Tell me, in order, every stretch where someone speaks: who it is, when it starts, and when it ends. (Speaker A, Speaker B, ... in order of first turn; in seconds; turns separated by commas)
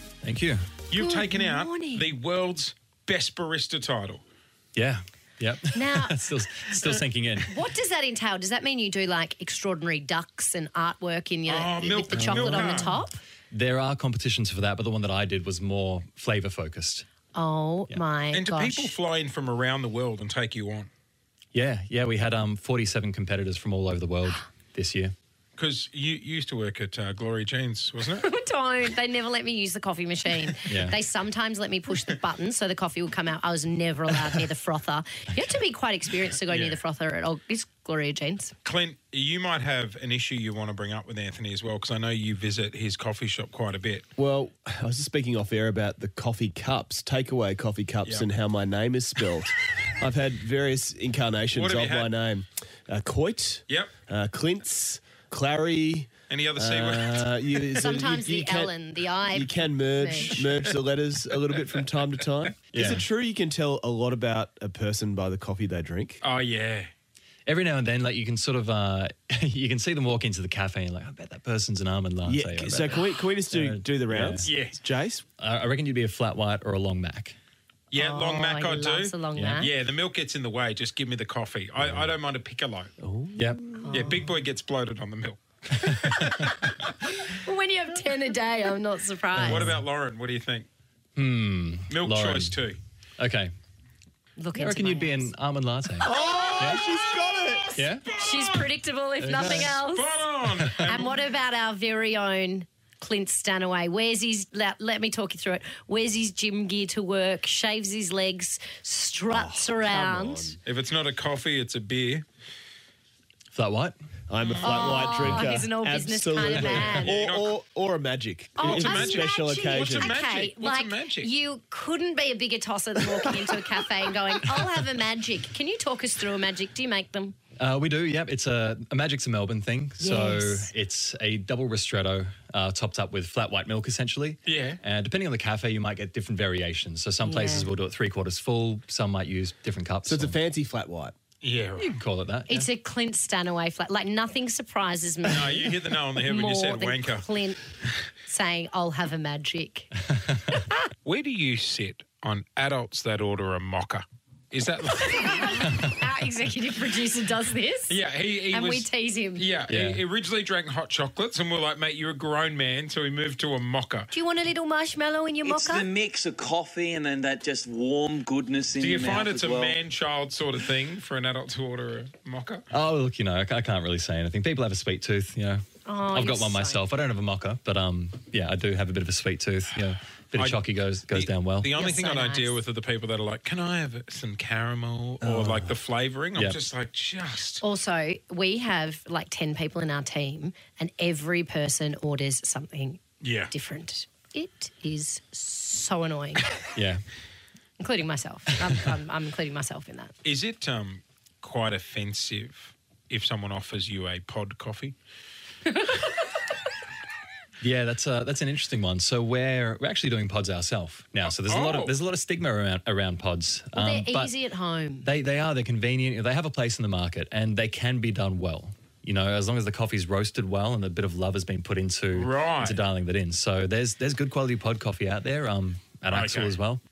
Speaker A: 0.2-0.7, Speaker B: 0.9-4.2, Speaker C: 0.9-2.1, Speaker A: 4.7-7.5, Speaker C: 5.7-6.2, Speaker C: 6.8-13.2, Speaker B: 11.5-12.9, Speaker A: 12.1-17.1, Speaker C: 17.3-18.9, Speaker B: 18.3-20.9, Speaker A: 21.5-25.1, Speaker B: 25.6-28.3, Speaker C: 28.1-38.5, Speaker A: 30.7-30.9, Speaker B: 36.5-36.8, Speaker B: 38.6-44.1, Speaker D: 44.1-58.7, Speaker B: 51.5-52.1, Speaker B: 56.3-57.3, Speaker C: 57.8-60.4, Speaker D: 59.3-66.2, Speaker A: 62.7-63.0, Speaker B: 66.2-66.9, Speaker A: 67.5-74.5, Speaker D: 72.2-75.2, Speaker B: 74.4-74.8, Speaker A: 75.4-77.3, Speaker B: 77.9-82.9, Speaker C: 77.9-79.7, Speaker A: 79.3-79.7, Speaker A: 81.8-82.1, Speaker D: 83.0-84.0, Speaker A: 83.3-83.6, Speaker C: 83.8-84.2, Speaker B: 83.9-86.7, Speaker A: 85.8-86.3, Speaker C: 87.3-89.7, Speaker A: 89.3-89.8, Speaker B: 89.3-90.7, Speaker A: 91.2-92.6, Speaker B: 91.9-92.8, Speaker A: 93.2-93.5, Speaker C: 94.4-95.3, Speaker A: 94.5-96.8, Speaker D: 96.0-97.8, Speaker C: 96.2-97.0, Speaker A: 97.7-98.0, Speaker C: 98.0-100.1, Speaker B: 98.1-98.7, Speaker A: 99.2-99.8, Speaker B: 99.3-101.1, Speaker A: 100.6-101.0, Speaker C: 100.8-110.6, Speaker D: 109.3-110.6, Speaker B: 110.6-112.2, Speaker A: 113.5-114.0, Speaker D: 114.3-120.1, Speaker B: 114.4-115.3, Speaker C: 114.6-117.2, Speaker B: 116.9-117.5, Speaker C: 118.5-127.3, Speaker B: 118.6-121.3, Speaker A: 127.6-140.4, Speaker C: 130.0-130.7, Speaker B: 134.4-134.8, Speaker C: 137.2-137.7, Speaker D: 140.1-141.1, Speaker B: 141.4-141.9, Speaker A: 141.8-142.7, Speaker C: 142.5-147.6, Speaker B: 145.2-147.2, Speaker C: 148.2-149.9, Speaker B: 151.0-155.7, Speaker C: 155.2-158.0, Speaker B: 157.9-164.1, Speaker C: 158.5-159.5, Speaker A: 159.7-160.0, Speaker C: 164.1-165.9, Speaker E: 165.4-169.8, Speaker B: 168.8-172.6, Speaker A: 172.7-181.7, Speaker C: 175.8-176.8, Speaker B: 180.4-187.6, Speaker C: 181.7-182.6, Speaker D: 185.2-185.6, Speaker C: 187.6-196.4, Speaker B: 193.2-193.5, Speaker A: 196.7-197.0, Speaker C: 197.8-200.1, Speaker B: 200.2-204.9, Speaker A: 207.6-214.3, Speaker B: 211.2-212.0, Speaker C: 213.7-215.1, Speaker A: 215.0-226.8, Speaker B: 222.1-222.8, Speaker B: 226.1-226.6